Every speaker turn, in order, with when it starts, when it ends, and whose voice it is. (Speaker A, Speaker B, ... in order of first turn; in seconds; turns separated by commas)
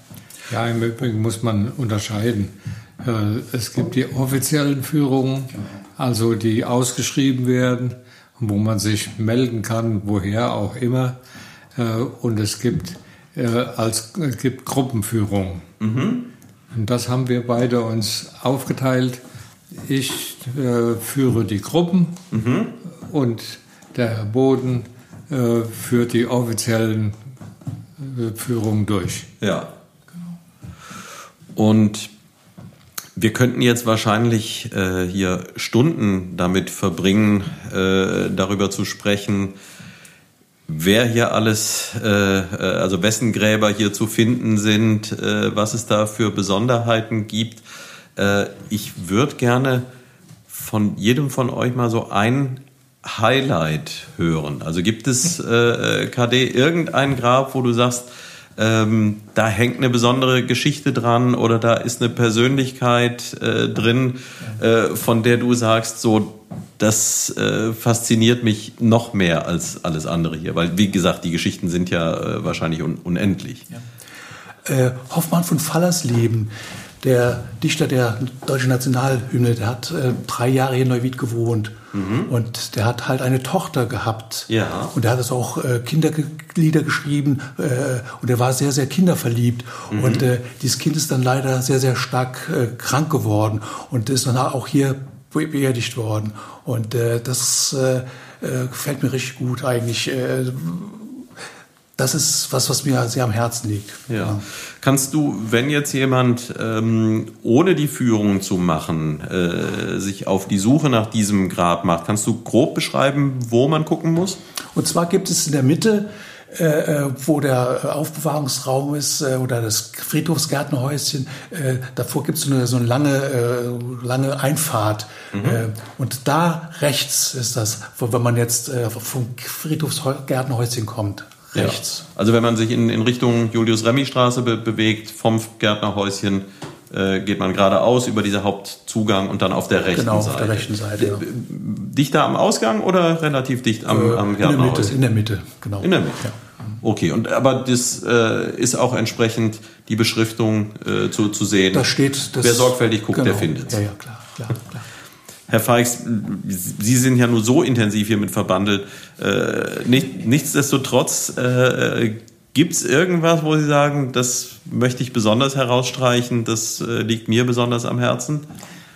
Speaker A: 0.5-11.2, Speaker A: 11.8-15.6, Speaker B: 15.8-16.3, Speaker A: 16.7-19.2, Speaker A: 19.8-22.2, Speaker B: 22.3-22.8, Speaker A: 23.1-27.2, Speaker A: 28.0-29.3, Speaker B: 29.4-29.7, Speaker B: 31.5-32.1, Speaker B: 33.1-39.5, Speaker B: 40.7-47.6, Speaker B: 48.1-49.9, Speaker B: 50.5-73.7, Speaker C: 74.6-81.7, Speaker B: 81.9-82.3, Speaker C: 82.3-101.3, Speaker B: 84.5-84.9, Speaker B: 89.9-90.2, Speaker C: 102.0-104.4, Speaker B: 104.1-114.4, Speaker C: 114.7-132.0, Speaker B: 125.3-125.6, Speaker B: 131.5-145.0, Speaker C: 139.9-141.2, Speaker C: 143.9-146.4, Speaker B: 145.8-146.3, Speaker B: 146.8-153.8, Speaker C: 151.7-154.8, Speaker B: 155.5-168.4